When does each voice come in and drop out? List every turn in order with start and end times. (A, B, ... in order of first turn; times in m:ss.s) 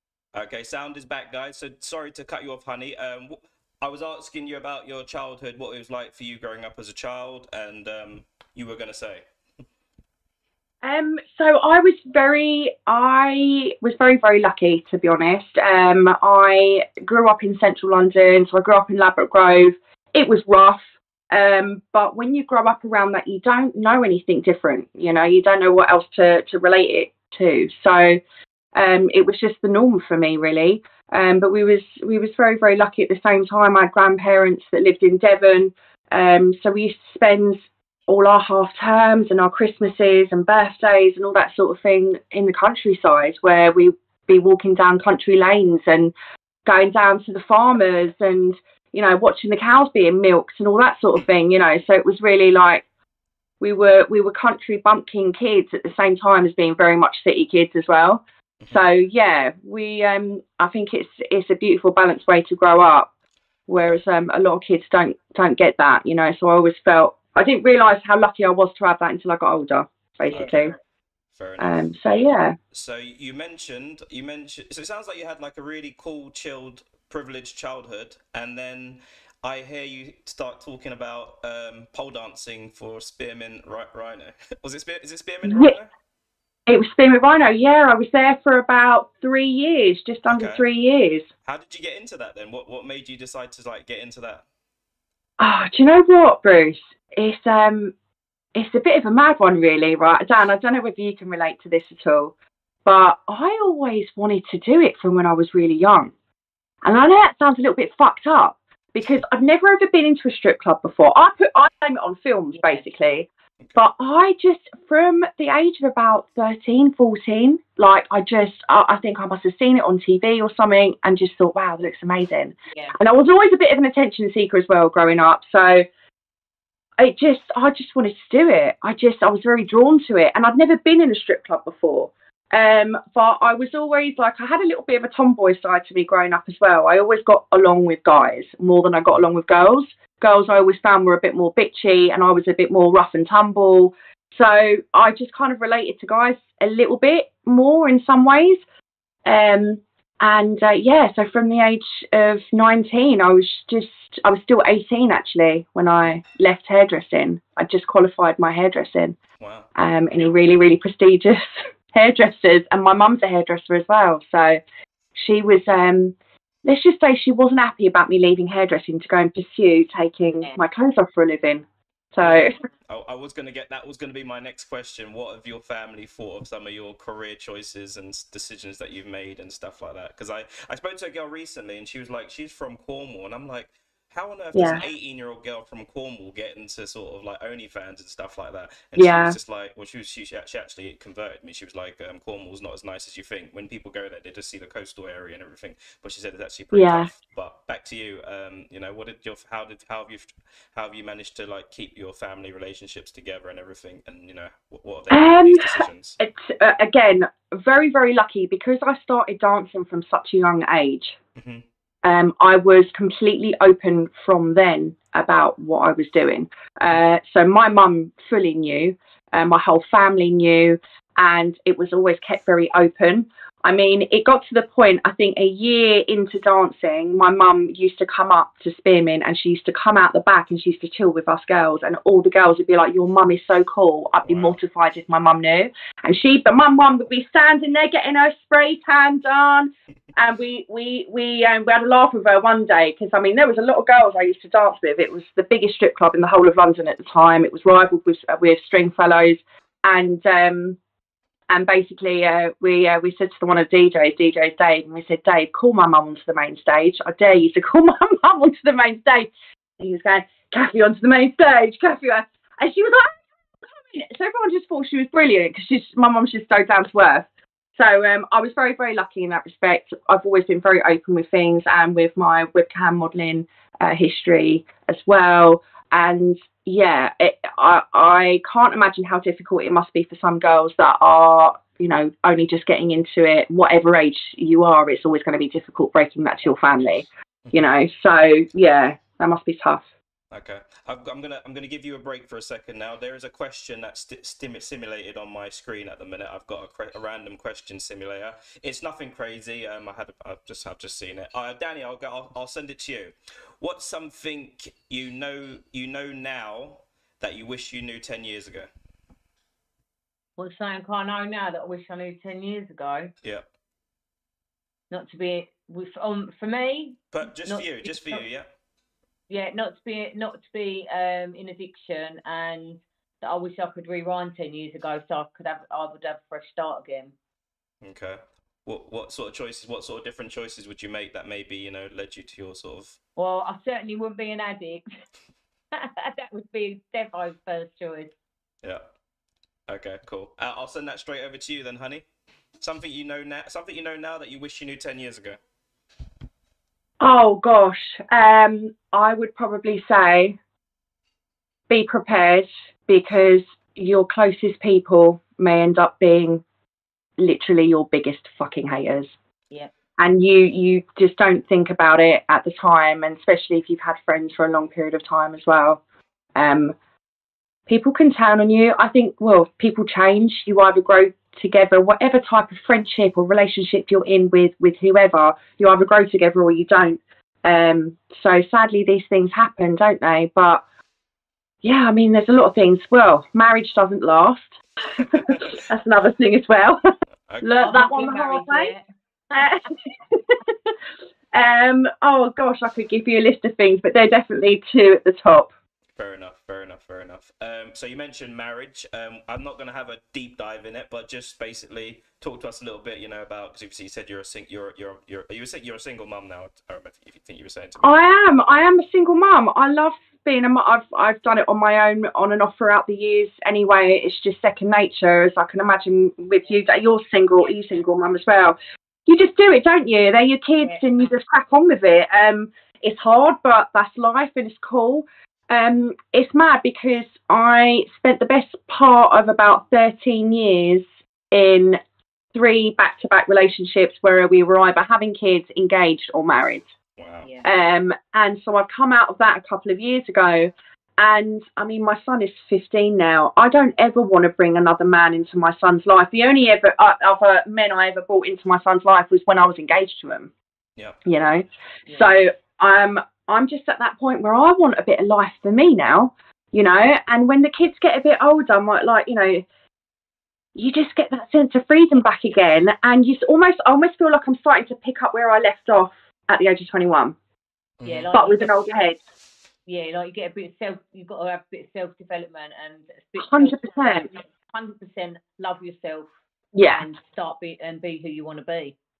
0:00.3-0:09.2 A
0:10.8-0:28.2 B
0:28.7-0:46.1 B
0:46.6-0:52.8 B
0:53.6-1:03.1 B
0:58.6-0:58.8 A
1:03.7-1:10.7 B
1:10.3-1:10.7 A
1:11.3-1:11.9 A
1:11.6-1:12.6 B
1:12.7-1:25.9 A
1:25.4-1:25.7 B
1:26.7-1:31.3 B
1:30.3-1:30.6 A
1:31.4-1:34.4 A
1:35.4-1:37.9 B
1:38.5-1:42.3 B
1:42.8-1:46.1 B
1:46.8-2:05.8 B
1:52.5-1:52.9 C
2:07.0-2:28.6 B
2:29.2-2:39.2 B
2:39.4-2:39.7 A
2:39.8-2:44.6 B
2:45.2-2:52.5 B
2:52.2-3:26.2 A
3:04.5-3:04.8 B
3:09.0-3:09.4 B
3:16.7-3:17.1 B
3:25.1-3:31.2 B
3:31.4-3:31.6 A
3:32.0-4:10.8 B
3:54.2-3:54.6 A
4:11.5-4:19.3 B
4:19.8-4:23.2 B
4:23.8-4:49.8 B
4:50.3-5:08.7 A
5:10.4-5:13.1 C
5:14.9-5:18.2 C
5:17.1-5:18.5 A
5:19.3-5:27.1 C
5:27.8-5:33.0 A
5:33.2-5:34.9 C
5:35.7-5:38.1 C
5:39.7-5:42.0 A
5:42.6-5:45.4 A
5:47.0-5:50.4 B
5:51.7-5:56.4 B
5:57.2-5:59.1 B
6:00.0-6:05.8 B
6:06.4-6:06.8 B
6:07.7-6:20.6 B
6:21.6-6:26.8 B
6:25.1-6:25.6 A
6:27.3-6:27.5 A
6:27.4-6:28.7 B
6:27.6-6:29.6 C
6:29.3-6:30.7 B
6:31.3-6:35.5 B
6:36.0-6:48.0 A
6:47.8-6:58.6 B
6:56.5-6:56.7 C
6:59.1-7:11.8 B
7:00.6-7:01.1 C
7:12.3-7:16.7 B
7:17.0-7:17.3 A
7:17.4-7:30.3 B
7:31.0-7:39.4 B
7:31.8-7:32.1 C
7:40.5-7:47.2 B
7:47.8-7:48.1 A
7:47.8-7:48.7 C
7:48.1-7:49.0 B
7:49.7-7:56.1 C
7:53.2-7:54.1 B
7:56.5-7:56.8 B
7:56.6-7:58.7 C